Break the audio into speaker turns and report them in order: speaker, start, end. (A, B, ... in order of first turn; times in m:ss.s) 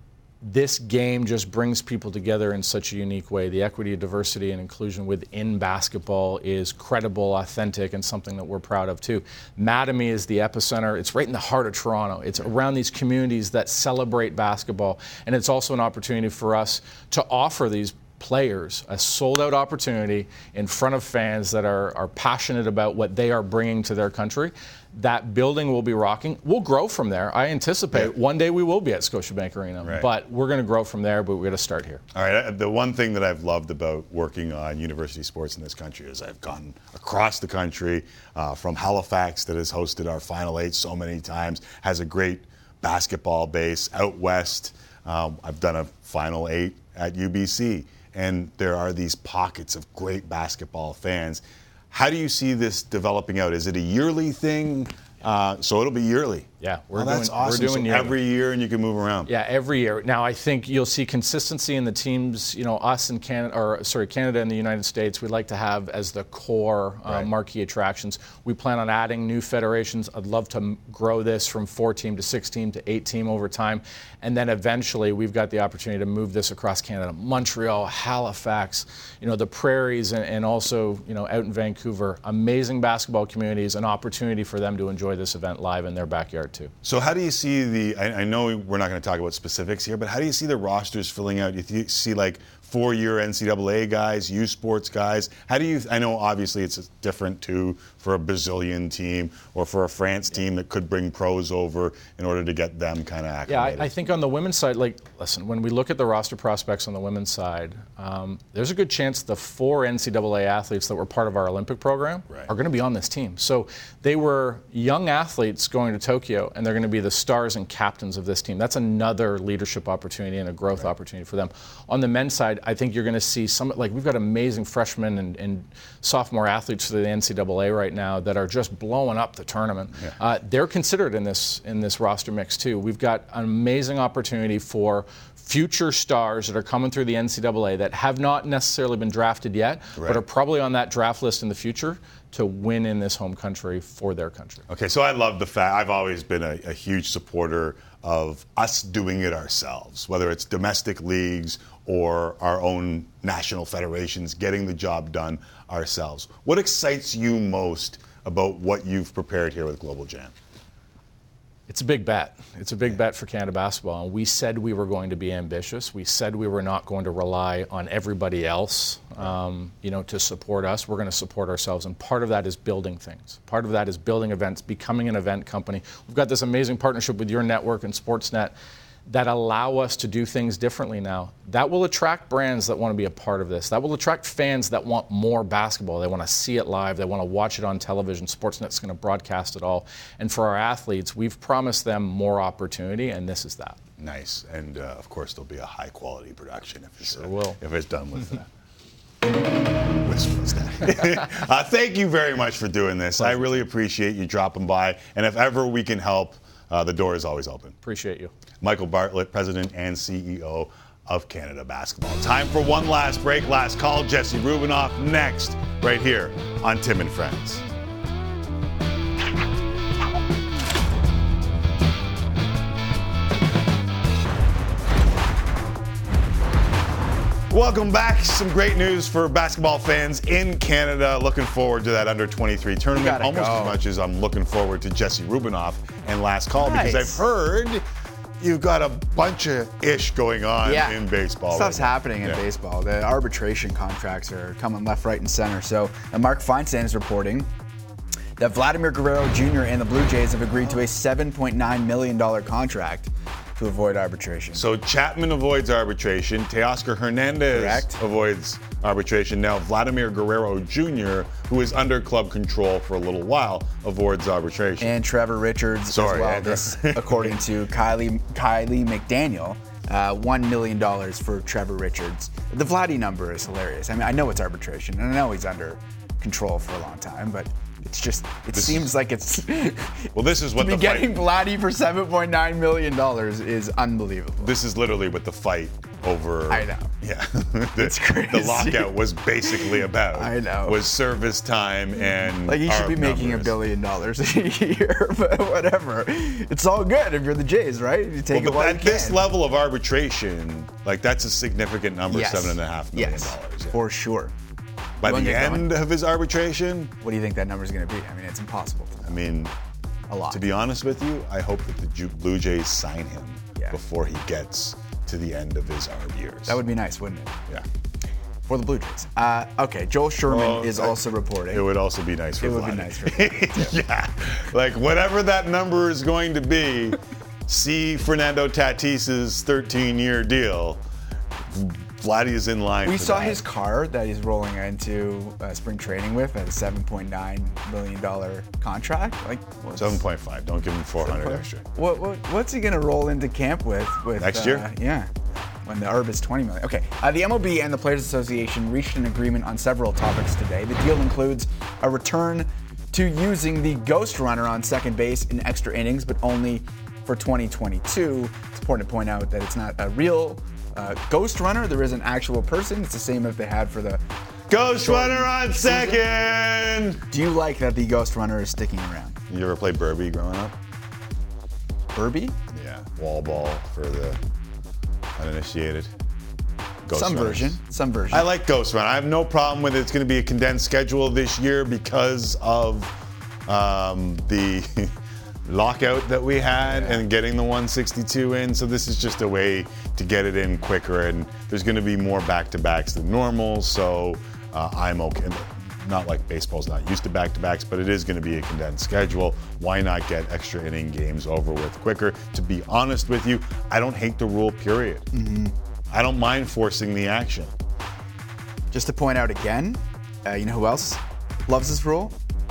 0:00.4-0:32.0 A
0:29.8-0:30.1 B
0:32.1-0:59.3 B
0:56.6-0:58.2 A
0:59.3-1:26.7 A
1:26.8-1:43.9 B
1:43.5-2:24.6 A
2:20.0-2:20.2 B
2:24.7-2:40.3 B
2:41.7-2:58.5 A
2:59.1-3:13.8 A
3:14.0-3:18.4 B
3:17.1-3:17.6 A
3:20.0-3:27.8 B
3:23.2-3:23.6 A
3:27.8-3:28.3 A
3:28.6-3:37.6 B
3:47.5-3:57.8 B
3:52.9-3:53.8 C
3:56.6-3:57.2 C
3:58.4-4:02.4 B
4:00.6-4:07.5 C
4:08.4-4:14.7 C
4:14.5-4:24.9 B
4:17.5-4:18.0 C
4:24.8-4:44.5 C
4:25.9-4:27.4 B
4:38.5-4:38.9 B
4:40.1-4:41.1 B
4:44.4-4:53.5 B
4:46.5-4:46.9 C
4:47.8-4:50.8 C
4:52.0-4:59.2 C
4:58.3-5:03.8 B
5:02.1-5:04.3 C
5:05.0-5:06.9 B
5:05.0-5:05.7 C
5:07.0-5:09.2 C
5:09.0-5:09.5 B
5:10.1-5:10.4 C
5:10.3-5:16.6 B
5:16.4-5:17.4 C
5:18.4-5:21.6 C
5:20.3-5:21.0 B
5:21.5-5:30.8 B
5:22.4-5:23.7 C
5:31.4-5:33.4 B
5:32.8-5:40.0 C
5:39.7-5:41.6 B
5:41.0-6:04.0 C
5:44.2-5:44.7 B
6:04.5-6:07.0 B
6:04.6-6:06.0 C
6:07.1-6:09.2 C
6:09.3-6:10.6 B
6:11.9-6:12.4 C
6:12.5-6:14.2 B
6:15.2-6:15.9 B
6:16.8-6:17.6 B
6:16.9-6:18.3 C
6:18.1-6:22.9 B
6:23.4-6:24.9 B
6:25.4-6:45.1 B
6:26.6-6:27.0 C
6:45.1-6:45.5 C
6:45.9-6:47.5 B
6:48.7-6:52.1 C